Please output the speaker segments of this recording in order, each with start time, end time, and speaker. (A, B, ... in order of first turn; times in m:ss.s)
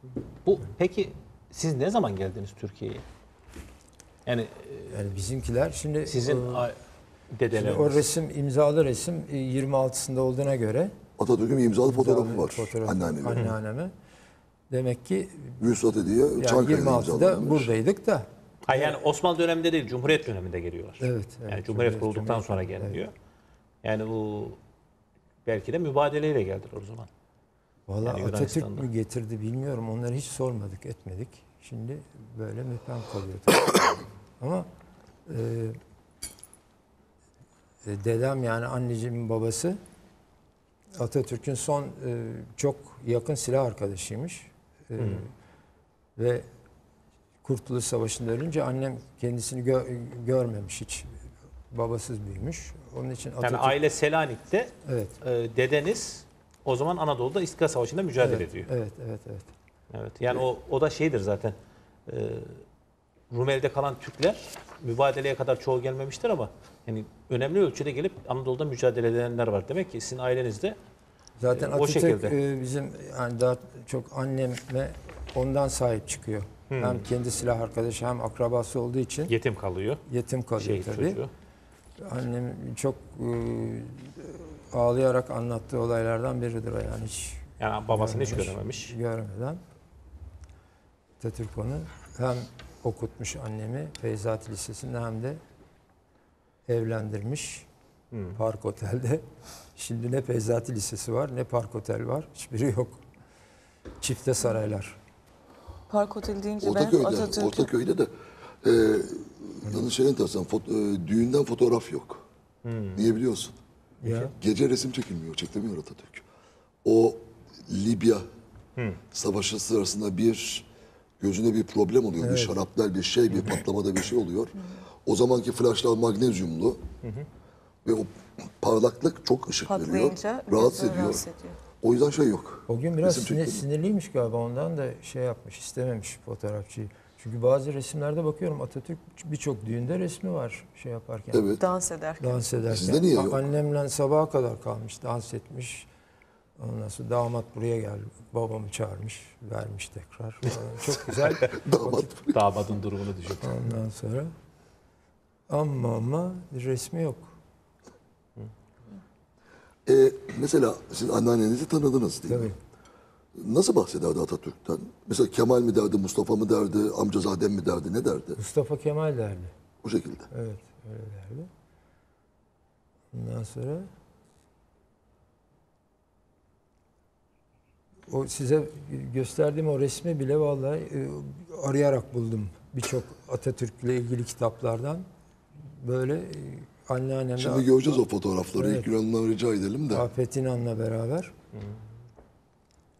0:00.4-0:03.0 A
0:04.3-0:05.0 A
0:04.9-0:06.7 B
0:06.1-0:06.8 A
0:07.3-0:08.1 A
0:07.5-0:10.9 B
0:11.2-0:13.5 C
0:11.9-0:13.9 B
0:14.7-0:15.7 B
0:15.6-0:17.7 C
0:16.4-0:19.0 B
0:18.6-0:23.1 A
0:21.0-0:23.0 B
0:23.8-0:24.6 A
0:25.5-0:27.1 A
0:27.9-0:34.7 B
0:28.0-0:28.9 A
0:35.3-0:35.8 B
0:37.8-0:39.8 B
0:41.0-0:45.3 B
0:45.0-0:45.2 A
0:46.2-0:46.4 B
0:47.4-0:51.2 B
0:51.7-0:53.8 B
0:53.4-0:58.7 A
0:54.8-0:55.2 B
0:58.2-0:59.5 B
0:59.9-1:01.6 A
1:02.1-1:02.6 A
1:03.3-1:10.8 A
1:11.4-1:19.4 B
1:11.5-1:12.4 A
1:16.7-1:17.1 A
1:19.3-1:20.0 A
1:20.1-1:21.2 B
1:20.6-1:21.3 A
1:22.0-1:29.6 B
1:27.6-1:29.0 A
1:31.2-1:35.4 B
1:36.7-1:37.7 B
1:38.1-1:38.4 A
1:38.4-1:39.2 B
1:39.8-1:43.0 B
1:44.0-1:45.0 B
1:45.9-1:47.7 D
1:46.6-1:48.1 C
1:48.6-1:52.2 C
1:52.6-1:53.1 A
1:53.0-1:53.6 C
1:54.0-1:54.4 B
1:54.1-1:56.2 C
1:56.8-1:58.2 C
1:59.1-2:00.7 C
2:01.2-2:06.8 C
2:02.2-2:02.6 B
2:07.8-2:11.2 C
2:09.7-2:11.6 D
2:11.8-2:13.6 C
2:12.7-2:21.6 B
2:21.3-2:21.6 C
2:21.6-2:22.5 D
2:22.2-2:25.9 B
2:22.7-2:23.5 C
2:26.6-2:32.1 B
2:31.4-2:32.4 C
2:32.3-2:33.7 A
2:33.4-2:34.3 B
2:35.5-2:37.3 B
2:39.9-2:42.5 C
2:42.3-2:42.6 B
2:43.4-2:48.4 C
2:48.4-2:49.5 B
2:49.8-2:50.3 C
2:50.3-2:51.5 B
2:53.1-2:53.9 B
2:58.1-3:05.1 B
3:05.7-3:07.7 B
3:07.4-3:10.0 C
3:08.6-3:08.9 B
3:09.9-3:11.3 B